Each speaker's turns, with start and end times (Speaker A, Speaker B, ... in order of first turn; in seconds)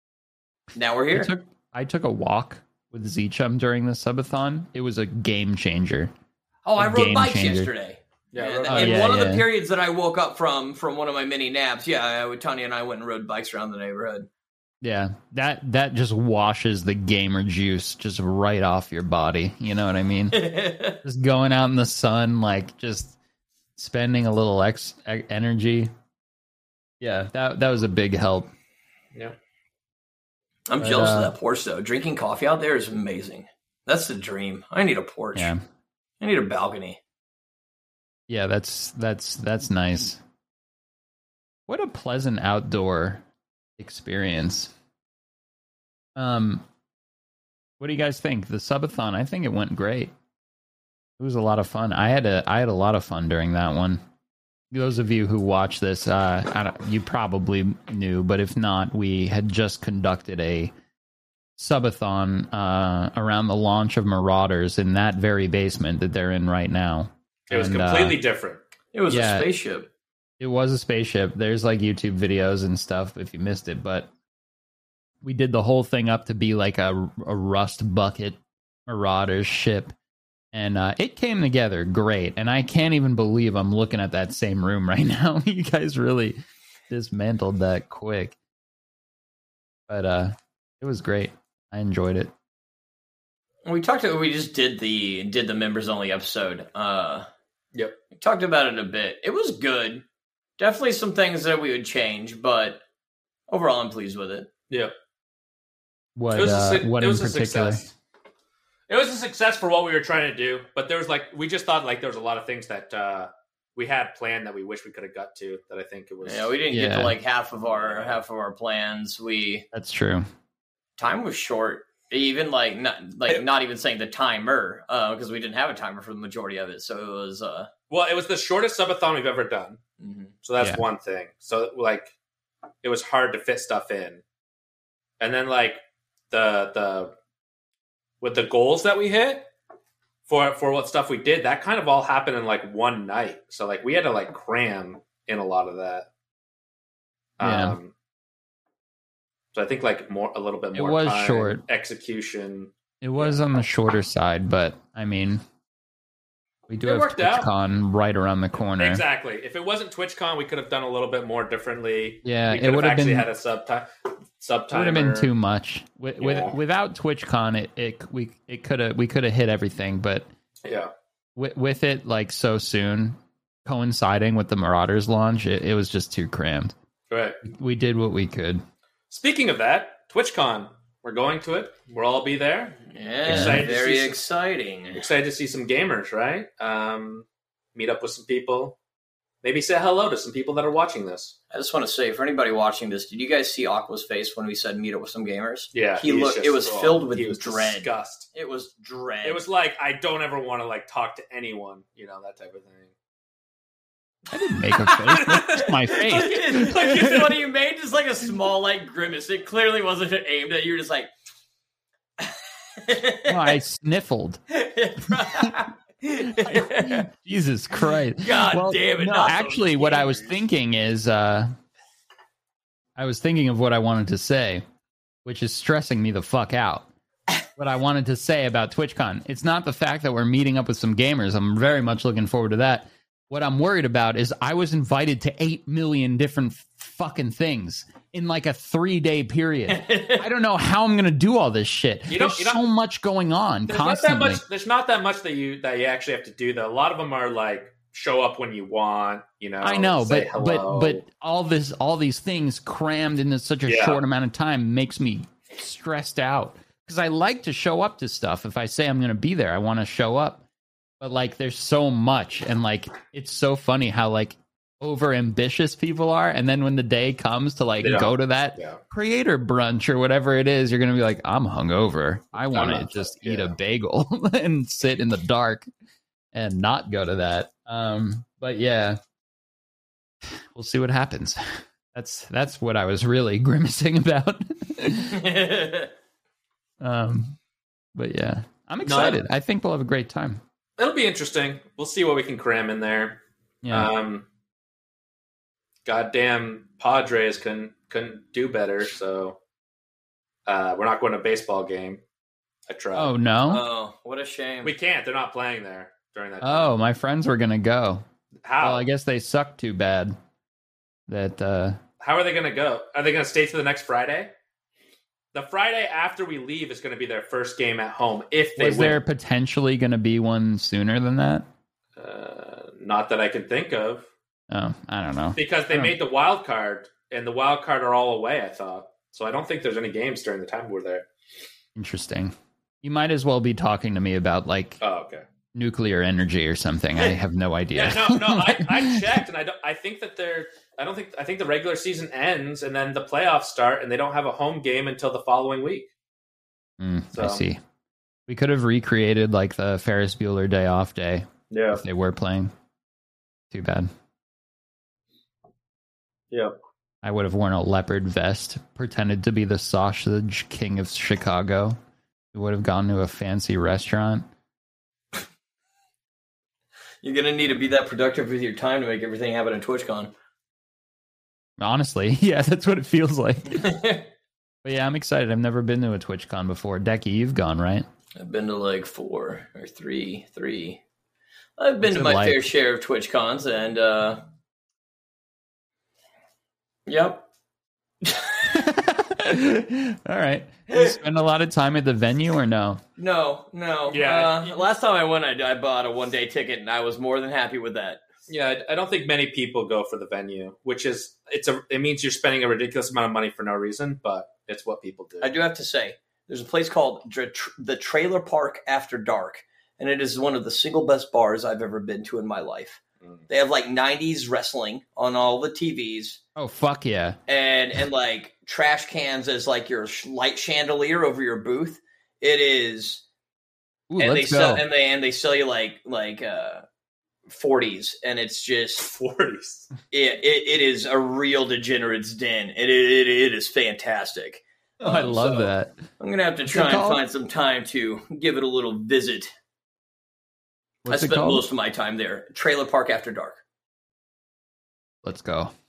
Speaker A: 0.7-1.3, 6.7-14.3, 20.3-21.0, 30.7-35.5, 36.2-37.0, 68.9-69.9, 93.7-97.3, 98.1-100.0, 100.6-102.8, 103.5-104.5, 116.2-119.7, 121.0-127.7, 130.0-130.3, 182.9-185.0, 191.5-199.4, 204.9-205.3, 206.1-211.1, 212.2-213.6, 214.5-217.1, 218.2-220.3, 239.7-240.2, 285.1-285.9, 303.5-304.7, 367.0-370.1, 373.6-374.1, 378.2-380.8, 381.6-384.2, 386.9-387.3, 388.0-388.5, 390.7-391.0, 393.0-398.0, 405.2-416.2, 417.3-423.0, 424.0-426.6, 427.3-428.9, 429.9-439.3, 440.9-443.4
Speaker B: 1.1-6.1, 6.8-7.7, 8.7-9.5, 14.8-23.2, 23.8-25.9, 27.0-28.5, 30.8-31.3, 35.4-35.6, 38.3-40.2, 41.7-43.2, 43.8-44.7, 46.2-46.7, 47.8-50.1, 51.2-54.0, 54.7-60.7, 61.6-68.2, 69.1-69.5, 70.4-74.1, 75.2-79.9, 80.5-88.4, 89.9-92.3, 106.2-107.8, 116.7-117.2, 119.7-120.3, 147.4-147.8, 150.7-151.6, 153.0-155.4, 156.7-159.0, 162.2-163.3, 164.7-170.3, 171.4-176.7, 177.4-178.6, 183.3-183.7, 204.3-207.3, 213.3-214.4, 215.0-215.6, 216.2-221.5, 223.0-224.6, 225.2-226.9, 227.6-244.4, 249.6-260.4, 261.0-275.7, 276.3-279.0, 280.5-285.3, 286.8-287.4, 287.9-290.4, 293.6-293.9, 302.9-303.6, 306.4-308.1, 308.6-310.2, 311.1-311.8, 318.6-321.5, 324.5-325.9, 331.8-334.8, 335.5-339.2, 346.8-347.6, 348.3-352.5, 353.5-353.9, 357.0-361.8, 362.3-364.3, 371.6-373.8, 374.6-377.9, 381.8-382.5, 388.5-392.8, 416.4-417.2, 423.9-424.6, 434.8-435.8, 436.5-437.0, 440.9-441.4, 445.0-445.5
Speaker C: 8.3-9.1, 67.5-68.6, 106.3-107.9, 108.9-116.5, 117.7-118.2, 127.9-129.8, 130.4-132.1, 132.8-134.2, 135.2-137.1, 138.2-139.5, 140.3-146.1, 147.4-147.9, 149.5-153.4, 156.9-157.5, 158.8-165.3, 166.2-166.6, 170.7-170.9, 177.1-177.4, 179.1-184.2, 184.9-188.8, 189.4-191.4, 195.7-198.3, 199.2-202.9, 205.1-207.4, 242.1-242.6, 243.7-251.0, 253.7-254.0, 267.8-268.8, 272.5-273.6, 288.8-289.2, 290.8-294.3, 295.9-299.4, 300.5-302.0, 302.7-303.1, 304.6-306.7, 308.4-308.9, 312.0-314.3, 315.3-319.0, 322.0-324.1, 325.4-331.1, 334.8-335.2, 337.7-345.9, 347.1-347.4, 351.5-351.8, 393.9-394.6, 398.3-405.3, 428.8-429.7